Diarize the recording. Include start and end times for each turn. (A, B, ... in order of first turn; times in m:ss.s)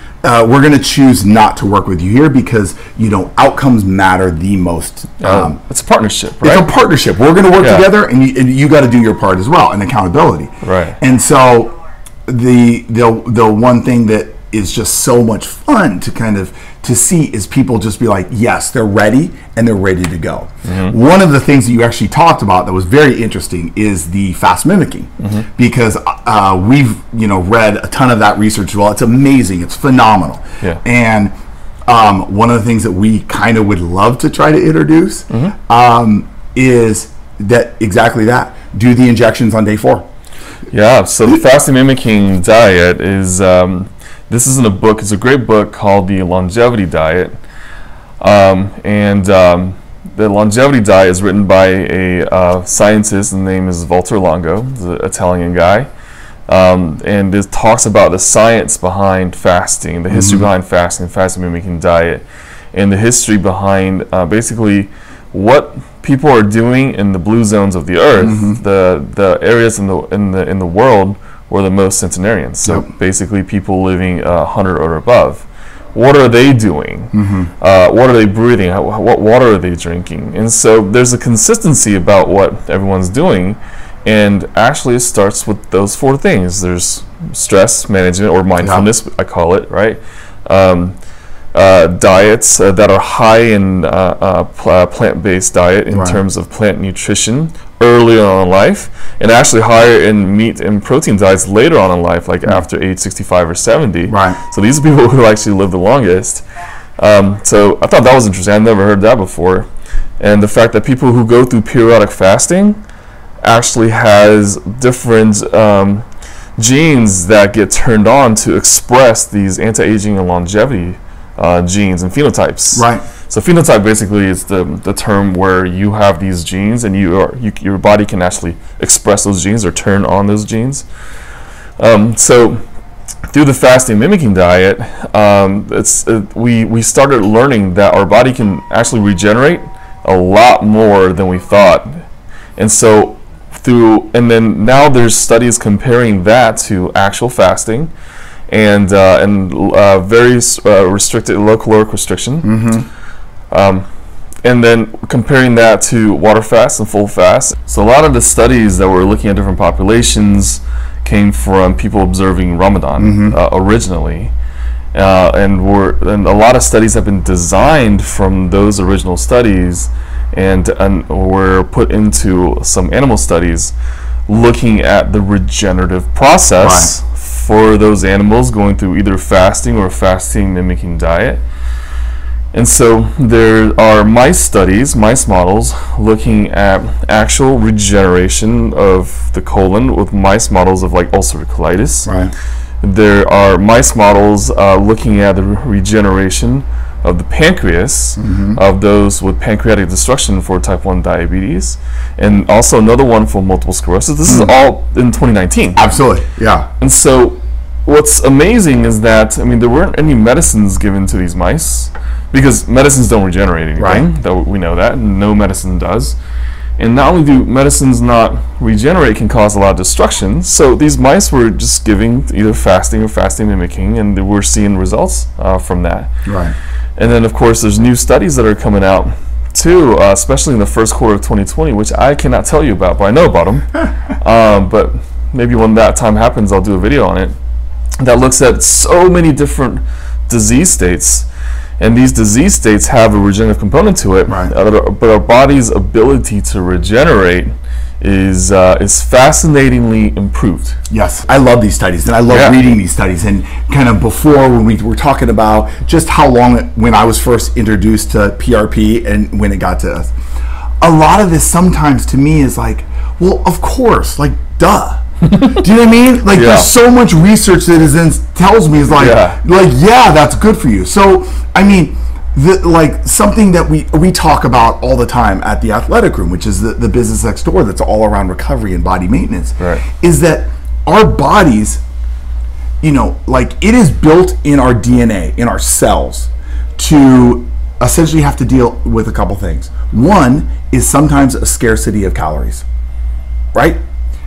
0:00.2-0:05.6 A
0:05.2-0:06.7 B
0:06.4-0:11.7 A
0:07.6-0:07.9 B
0:10.6-0:11.0 B
0:12.2-0:31.3 A
0:20.6-0:20.9 B
0:25.2-0:25.4 B
0:31.9-0:40.0 A
0:35.3-0:35.5 B
0:40.7-0:47.3 B
0:48.2-0:55.9 B
0:56.5-1:31.0 B
1:00.1-1:00.5 A
1:08.2-1:08.6 A
1:17.1-1:17.5 A
1:28.6-1:28.8 A
1:31.5-1:46.4 B
1:35.9-1:36.2 A
1:44.1-1:44.4 A
1:47.0-1:49.6 B
1:50.2-1:52.8 B
1:53.4-1:56.0 B
1:56.6-2:10.8 B
2:02.7-2:03.0 A
2:11.8-2:12.6 B
2:13.3-2:22.0 B
2:22.6-2:27.9 B
2:28.5-2:32.6 B
2:32.4-2:32.8 A
2:33.5-2:33.9 B
2:34.4-2:44.3 B
2:43.0-2:43.4 A
2:44.9-2:53.7 B
2:54.3-3:01.4 B
2:56.6-2:56.9 A
3:02.5-3:12.1 B
3:12.0-3:12.3 A
3:12.8-3:25.9 B
3:18.2-3:18.6 A
3:24.2-3:24.5 A
3:25.8-3:26.7 A
3:26.8-3:36.2 B
3:33.8-3:34.1 A
3:36.8-3:46.1 B
3:46.2-3:46.5 A
3:47.0-3:57.3 B
3:58.0-4:01.2 B
4:01.8-4:10.8 B
4:04.3-4:04.5 A
4:10.9-4:20.1 A
4:12.3-4:12.7 B
4:20.8-4:41.8 A
4:25.2-4:25.6 B
4:26.3-4:26.7 B
4:28.9-4:29.4 B
4:39.6-4:39.8 B
4:42.8-4:52.6 A
4:53.5-4:53.8 A